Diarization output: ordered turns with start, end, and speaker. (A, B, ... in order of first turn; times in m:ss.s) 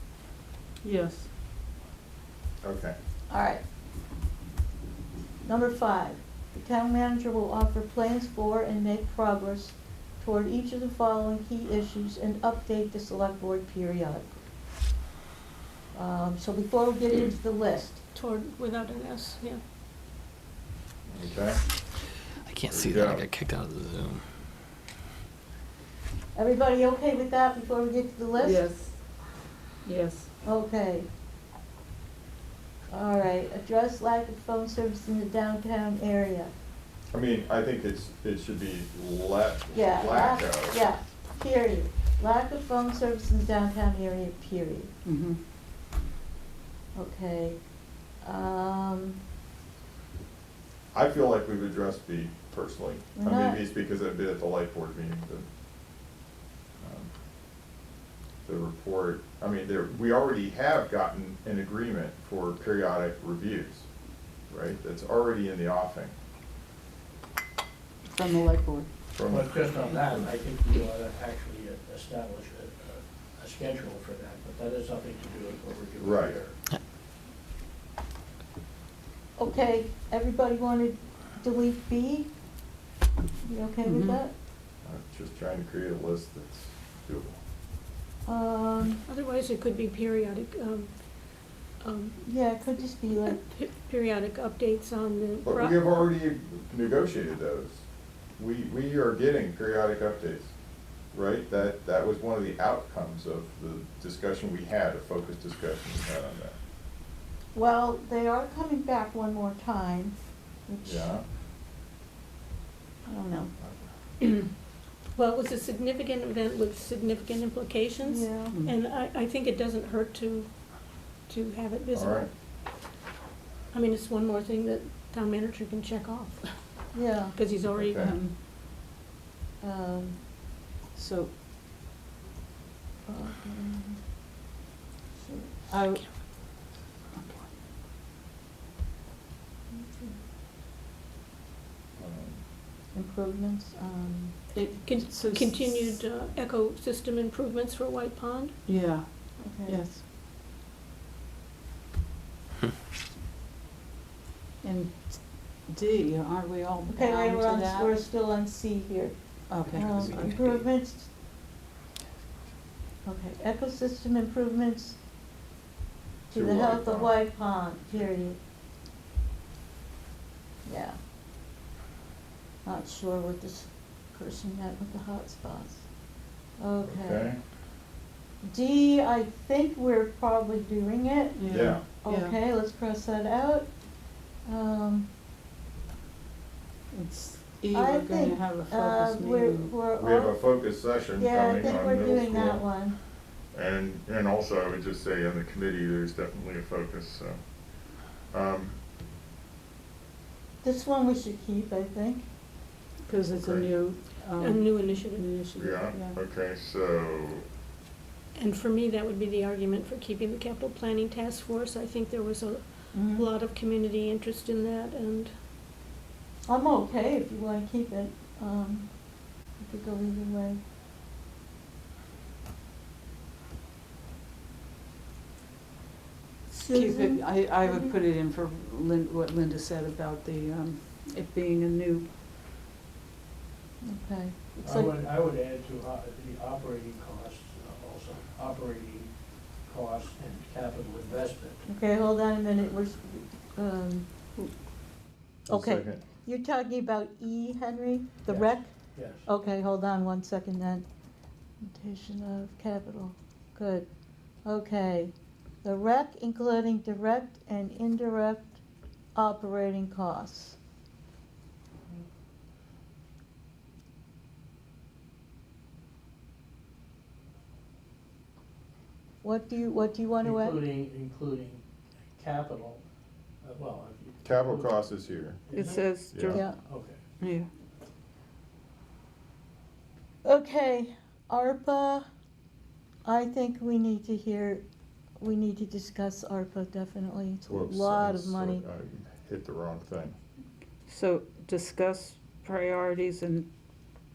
0:00.8-0:01.3 A
0:02.6-0:02.9 B
0:03.3-0:03.6 C
0:05.4-0:14.4 C
0:15.9-0:18.0 C
0:18.1-0:19.6 D
0:21.1-0:21.6 B
0:22.4-0:24.3 E
0:22.7-0:23.3 B
0:26.3-0:28.7 C
0:28.4-0:29.0 A
0:29.8-0:30.3 A
0:30.4-0:31.1 C
0:32.9-0:36.5 C
0:37.1-0:40.8 B
0:39.7-0:44.9 C
0:45.0-0:45.4 A
0:46.9-0:47.6 C
0:48.2-0:49.2 C
0:50.9-0:55.4 B
0:53.1-0:53.6 C
0:56.8-0:57.1 B
0:58.4-1:03.8 B
1:04.5-1:06.1 B
1:08.0-1:08.9 A
1:09.1-1:09.5 B
1:09.3-1:16.5 F
1:16.0-1:16.4 B
1:19.4-1:22.3 C
1:23.4-1:24.3 C
1:23.8-1:24.2 A
1:24.8-1:27.4 B
1:28.2-1:29.0 C
1:29.1-1:35.8 D
1:32.2-1:33.4 C
1:35.4-1:37.8 B
1:38.4-1:40.5 B
1:41.1-1:46.5 B
1:47.5-1:51.1 C
1:50.8-1:51.2 B
1:53.0-1:53.5 C
1:55.1-2:00.6 D
1:58.0-1:58.6 C
1:58.5-1:58.8 A
2:01.2-2:02.3 D
2:01.9-2:02.3 B
2:03.7-2:08.0 D
2:06.9-2:07.3 C
2:07.7-2:08.2 B
2:08.0-2:08.3 A
2:09.6-2:10.2 C
2:10.9-2:11.3 A
2:13.0-2:14.0 C
2:15.2-2:15.5 C
2:15.7-2:16.3 A
2:17.2-2:17.5 A
2:19.7-2:20.2 C
2:22.0-2:22.4 B
2:22.9-2:24.4 C
2:24.5-2:26.0 A
2:24.8-2:28.5 D
2:28.6-2:30.0 A
2:29.4-2:29.8 C
2:34.6-2:38.0 A
2:36.9-2:41.1 C
2:39.5-2:40.6 A
2:43.0-2:45.0 C
2:46.3-2:47.2 B
2:46.3-2:48.4 C
2:50.6-2:51.0 C
2:52.6-2:55.9 C
2:56.6-2:57.2 C
2:56.8-2:57.4 B
2:58.4-3:03.7 C
3:01.4-3:02.4 A
3:01.5-3:01.8 B
3:04.4-3:05.1 C
3:06.9-3:09.7 A
3:07.7-3:10.4 C
3:10.0-3:12.6 B
3:11.2-3:13.0 C
3:13.5-3:17.4 B
3:18.1-3:18.8 B
3:20.6-3:22.2 C
3:23.0-3:26.2 A
3:23.3-3:23.6 B
3:24.4-3:25.3 D
3:25.5-3:27.4 B
3:28.3-3:35.3 D
3:32.9-3:33.2 C
3:36.5-3:40.6 C
3:46.5-3:48.0 C
3:46.6-3:52.1 A
3:53.8-3:55.0 C
3:54.6-3:59.1 F
3:59.7-4:01.6 F
4:01.7-4:04.1 C
4:05.5-4:06.0 B
4:05.5-4:10.8 C
4:11.6-4:13.9 C
4:14.4-4:18.6 C
4:19.1-4:20.6 C
4:29.2-4:30.6 C
4:30.2-4:31.6 F
4:32.1-4:32.8 F
4:33.4-4:34.7 F
4:34.2-4:35.4 B
4:35.5-4:36.5 A
4:35.5-4:35.8 F
4:36.1-4:36.4 B
4:36.3-4:36.6 C
4:36.6-4:37.0 F
4:37.2-4:37.5 A
4:40.2-4:42.0 C
4:43.0-4:44.6 C
4:45.2-4:48.6 C
4:47.5-4:50.2 B
4:50.9-4:53.5 A